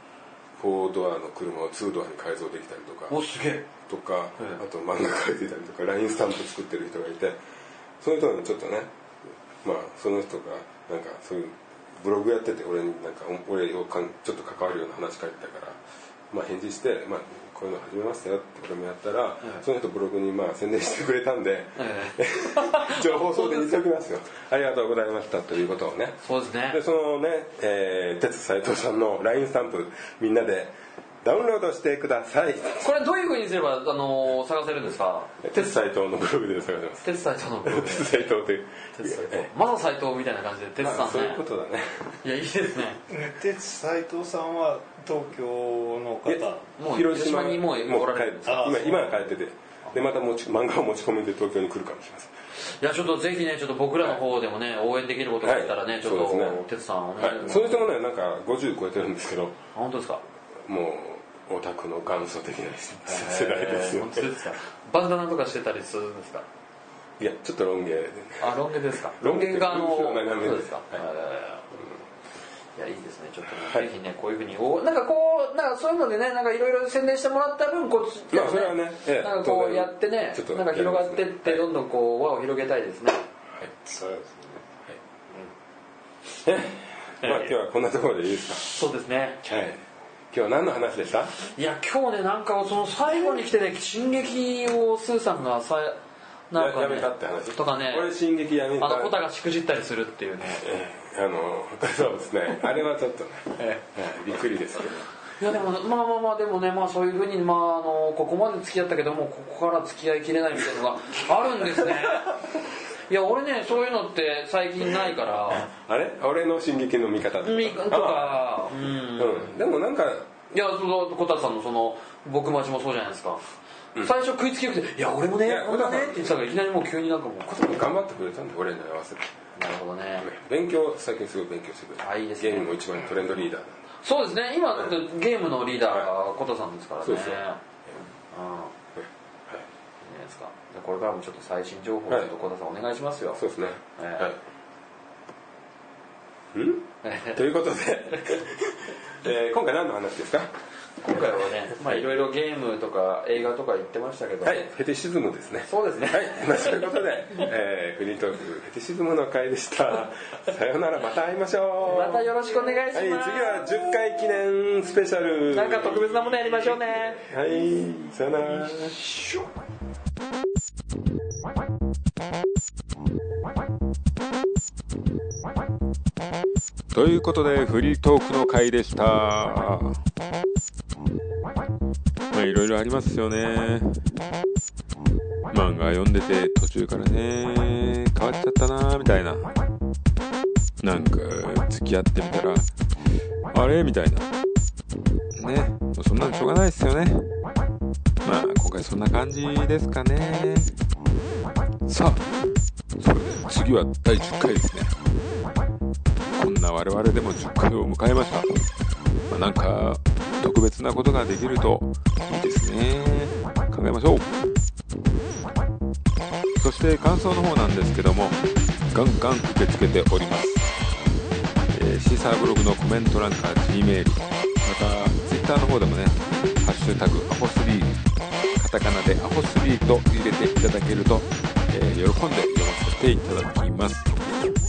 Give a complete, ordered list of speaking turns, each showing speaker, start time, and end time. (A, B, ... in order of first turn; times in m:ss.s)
0:00.6-0:03.2 A
0:03.1-0:03.6 B
0:03.8-0:07.4 A
0:08.0-0:08.9 A
0:09.6-0:15.8 A
0:16.3-0:32.9 A
0:21.8-0:23.8 B
0:26.2-0:26.8 B
0:32.8-0:35.3 B
0:35.4-0:37.1 A
0:37.0-0:38.1 B
0:37.6-0:39.5 A
0:39.0-0:41.4 B
0:40.8-0:42.2 A
0:42.2-0:43.0 B
0:43.1-0:46.7 C
0:46.2-0:52.3 A
0:46.8-0:48.9 B
0:48.4-0:49.0 C
0:52.8-0:57.8 B
0:55.4-0:56.6 A
0:57.2-0:59.6 A
0:59.7-1:00.2 B
1:00.6-1:04.3 A
1:03.1-1:06.4 B
1:07.2-1:11.0 A
1:08.4-1:11.8 B
1:12.8-1:23.2 B
1:13.5-1:13.9 A
1:18.3-1:21.6 A
1:23.8-1:24.6 C
1:26.3-1:28.8 A
1:27.2-1:27.5 B
1:28.7-1:29.4 B
1:29.4-1:29.8 A
1:30.3-1:31.4 A
1:31.5-1:36.0 B
1:36.5-1:38.1 B
1:36.5-1:39.2 A
1:38.8-1:40.6 B
1:40.5-1:45.1 A
1:45.4-1:52.4 B
1:53.1-1:55.7 B
1:55.6-1:58.5 A
1:57.4-1:59.5 B
1:59.2-2:00.3 A
2:00.5-2:03.4 B
2:04.0-2:07.8 B
2:05.4-2:06.4 A
2:07.6-2:09.3 A
2:09.6-2:10.3 B
2:10.2-2:13.8 A
2:12.0-2:13.1 B
2:14.0-2:17.6 B
2:17.0-2:18.0 A
2:18.3-2:18.7 B
2:18.9-2:19.6 A
2:20.0-2:23.4 B
2:23.4-2:24.4 A
2:24.0-2:24.3 B
2:26.5-2:30.5 A
2:27.0-2:27.4 B
2:31.0-2:34.6 B
2:34.4-2:42.3 A
2:35.7-2:36.8 B
2:41.8-2:43.9 B
2:42.9-2:49.0 A
2:45.5-2:47.2 B
2:48.6-2:49.2 B
2:56.9-3:00.0 D
3:02.3-3:04.0 D
3:05.5-3:09.5 D
3:10.8-3:12.7 D
3:13.5-3:14.3 D
3:15.4-3:17.3 D
3:18.2-3:20.8 D
3:21.8-3:22.2 D
3:23.0-3:24.9 D
3:26.3-3:28.7 D
3:29.3-3:34.4 D
3:36.6-3:40.7 D
3:41.7-3:48.0 D
3:48.6-3:54.1 D